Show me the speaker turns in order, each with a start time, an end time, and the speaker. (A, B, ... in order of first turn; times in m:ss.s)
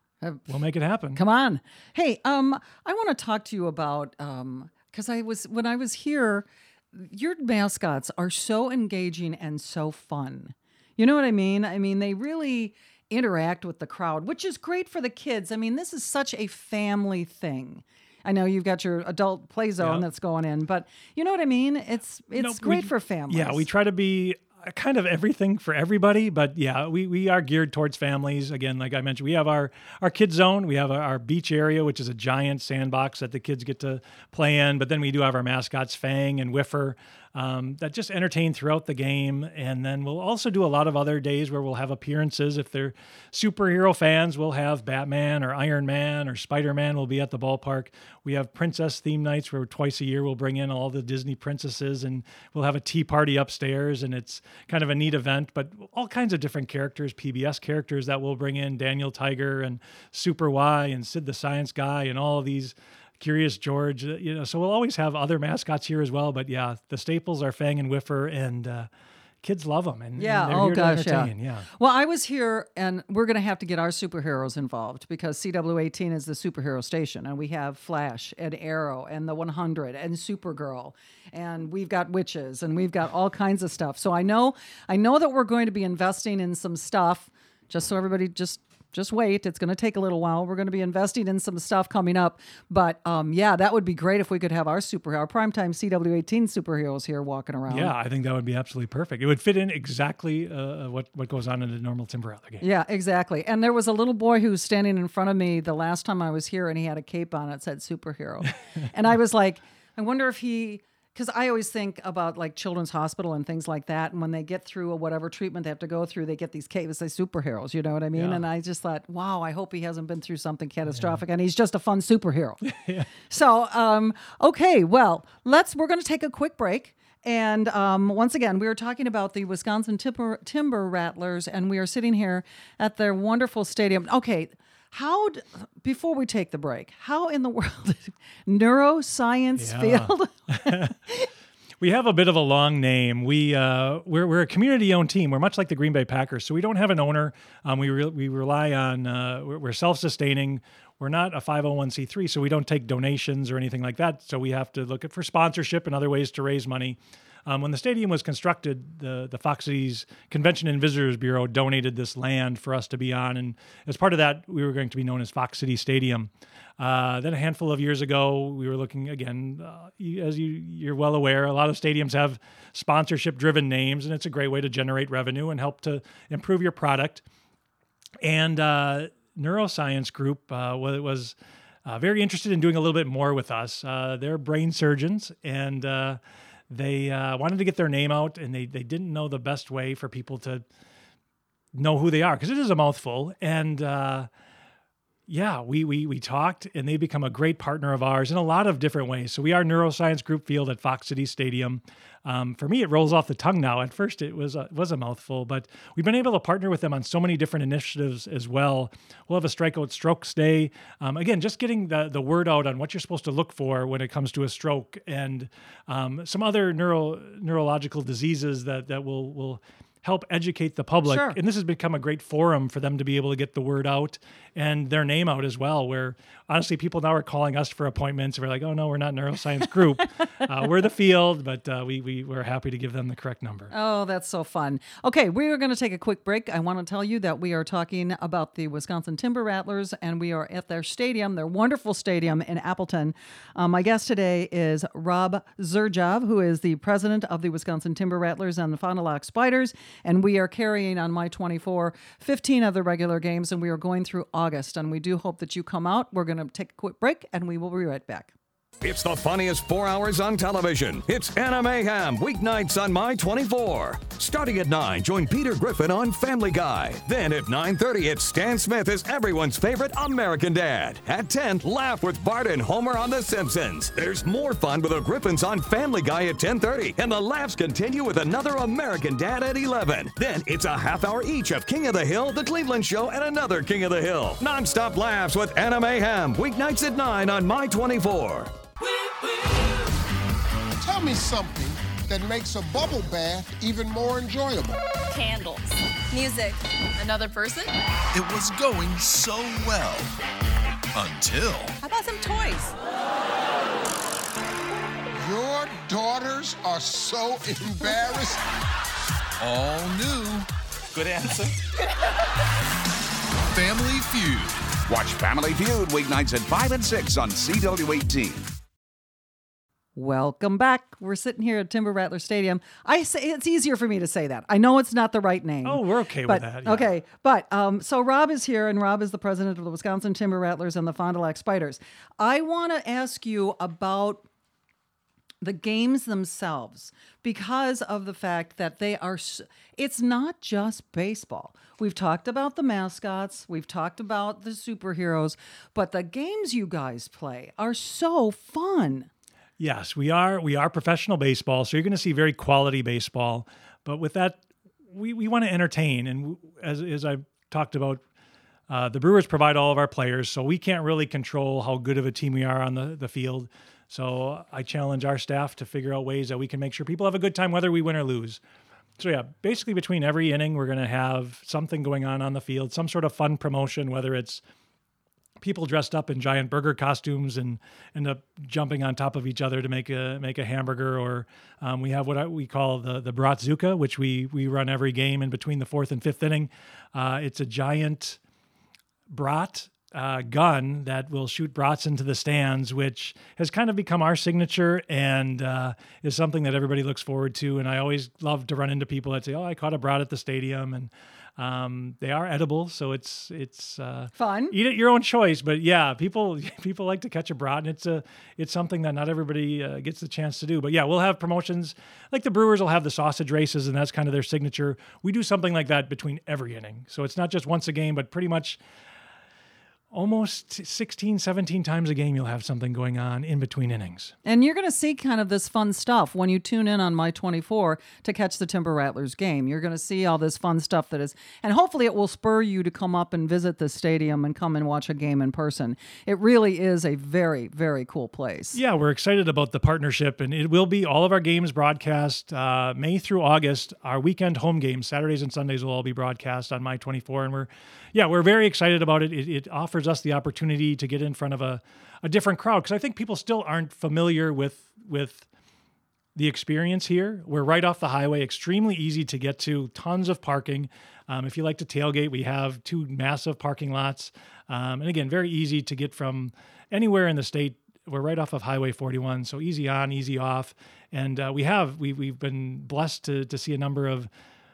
0:00.5-0:01.2 A
0:01.1-0:23.7 B
0:19.8-0:20.0 A
0:22.4-1:08.9 A
1:09.4-1:11.7 A
1:10.2-1:37.9 B
1:37.7-1:42.6 A
1:42.6-2:02.6 B
1:58.1-1:58.4 A
2:02.6-2:03.1 A
2:03.3-2:21.3 B
2:19.6-2:21.0 A
2:21.8-2:57.2 A
2:58.2-3:10.6 A
3:11.7-3:14.3 A
3:15.3-3:53.7 A
3:41.0-3:41.4 B
3:53.7-4:18.3 B
4:18.8-4:48.5 C
4:50.8-4:54.8 D
4:55.1-4:57.7 E
4:58.1-5:00.2 F
5:00.9-5:01.8 F
5:01.8-5:02.7 E
5:05.1-5:08.4 D
5:09.4-5:11.5 F
5:13.5-5:14.6 F
5:14.9-5:18.5 G
5:20.0-5:34.3 B
5:25.6-5:26.9 A
5:35.4-5:49.1 B
5:49.6-5:58.0 A
5:58.7-6:08.4 A
6:09.0-6:14.4 A
6:15.4-6:28.2 A
6:29.1-6:58.6 A
6:44.2-6:44.6 B
6:59.9-7:04.1 A
7:04.2-7:18.6 B
7:18.5-7:35.3 A
7:36.2-7:54.1 A